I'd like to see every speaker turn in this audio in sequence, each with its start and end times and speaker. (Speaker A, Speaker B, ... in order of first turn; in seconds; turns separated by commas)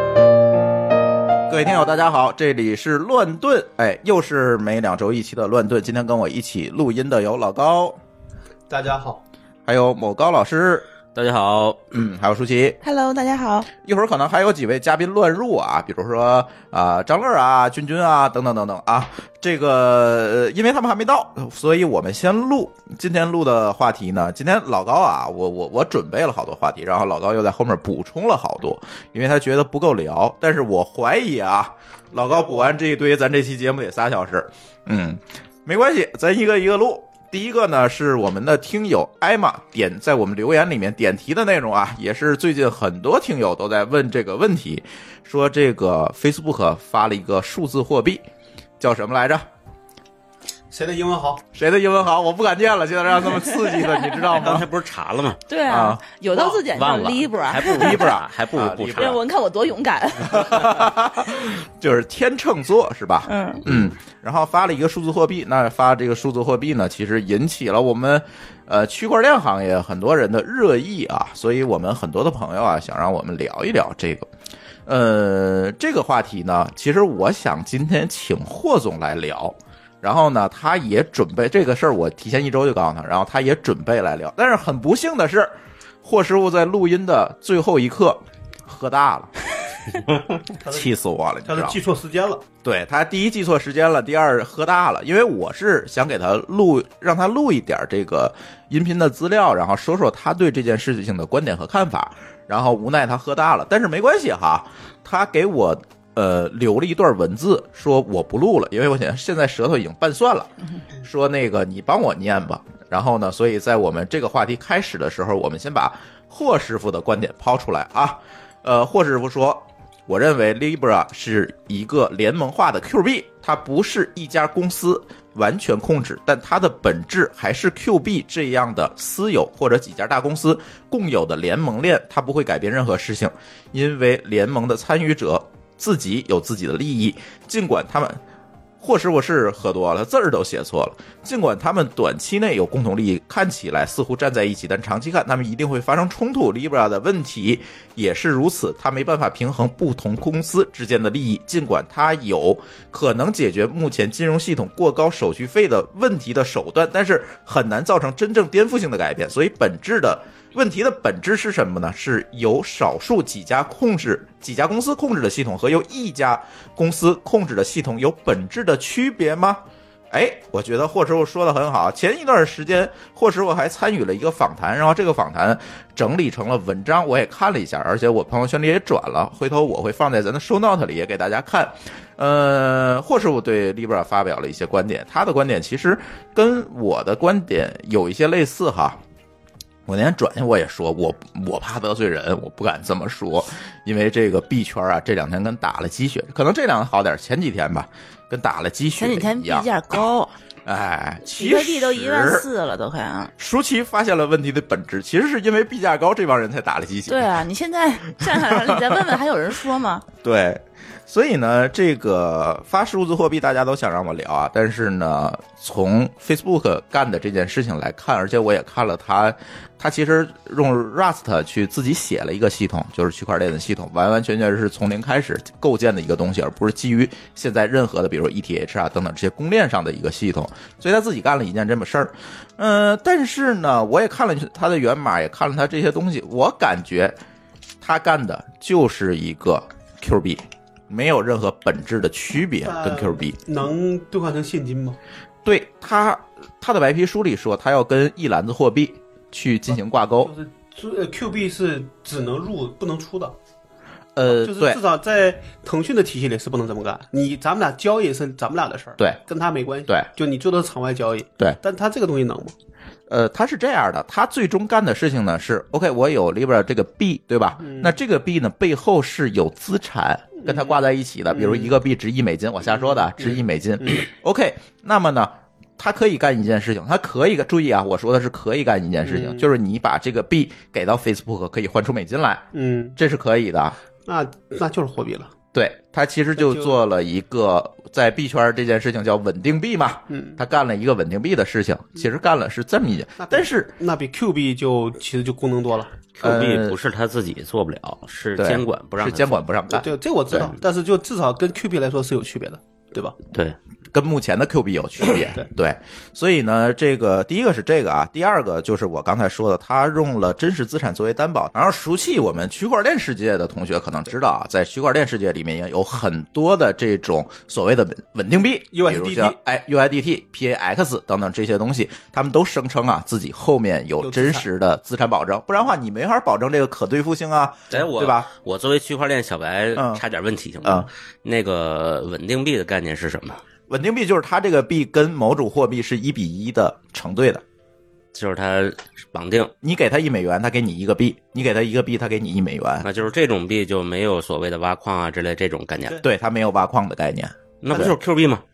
Speaker A: 1.5-8.0, Speaker B: 8.7-9.2, Speaker A: 9.7-10.8, Speaker C: 11.1-11.9, Speaker A: 11.9-12.8, Speaker D: 12.8-13.7, Speaker A: 13.8-48.2, Speaker B: 32.2-32.8, Speaker A: 48.8-49.5, Speaker B: 50.7-51.4, Speaker A: 51.5-54.7, Speaker C: 54.3-55.4, Speaker D: 55.5-58.1, Speaker A: 55.7-56.0, Speaker C: 56.4-59.2, Speaker A: 57.7-59.2, Speaker D: 59.0-60.9, Speaker A: 60.2-74.3, Speaker D: 63.3-63.6, Speaker A: 74.9-89.3, Speaker B: 90.5-90.9, Speaker A: 90.6-91.8, Speaker B: 91.5-92.4, Speaker A: 92.6-110.5, Speaker A: 111.0-138.2, Speaker A: 138.8-189.0, Speaker A: 189.9-199.7, Speaker D: 199.0-200.3, Speaker A: 200.6-202.4, Speaker D: 201.3-203.3, Speaker A: 203.4-207.3, Speaker D: 207.1-210.0, Speaker A: 208.2-209.0, Speaker A: 210.2-237.2, Speaker A: 237.8-243.4, Speaker B: 242.6-245.0, Speaker A: 245.4-250.3, Speaker B: 250.2-253.3, Speaker A: 254.2-254.8, Speaker B: 254.2-262.5, Speaker A: 263.1-282.4, Speaker B: 267.6-268.0, Speaker B: 270.4-270.8, Speaker B: 271.3-271.7, Speaker B: 272.7-274.0, Speaker B: 279.0-279.5, Speaker B: 282.5-283.0, Speaker A: 282.9-283.8, Speaker B: 284.1-285.3, Speaker A: 285.5-293.7, Speaker B: 286.4-286.8, Speaker B: 290.1-290.4, Speaker B: 293.2-295.9, Speaker C: 296.1-299.4, Speaker A: 296.2-296.8, Speaker A: 298.4-300.5, Speaker B: 299.7-303.1, Speaker A: 303.9-328.3, Speaker B: 305.1-305.4, Speaker B: 318.7-319.4, Speaker B: 324.0-324.5, Speaker C: 327.7-333.4, Speaker A: 329.7-330.0, Speaker A: 333.7-337.4, Speaker C: 338.1-339.5, Speaker A: 339.6-342.9, Speaker C: 342.8-346.0, Speaker A: 346.0-347.9, Speaker C: 347.6-348.4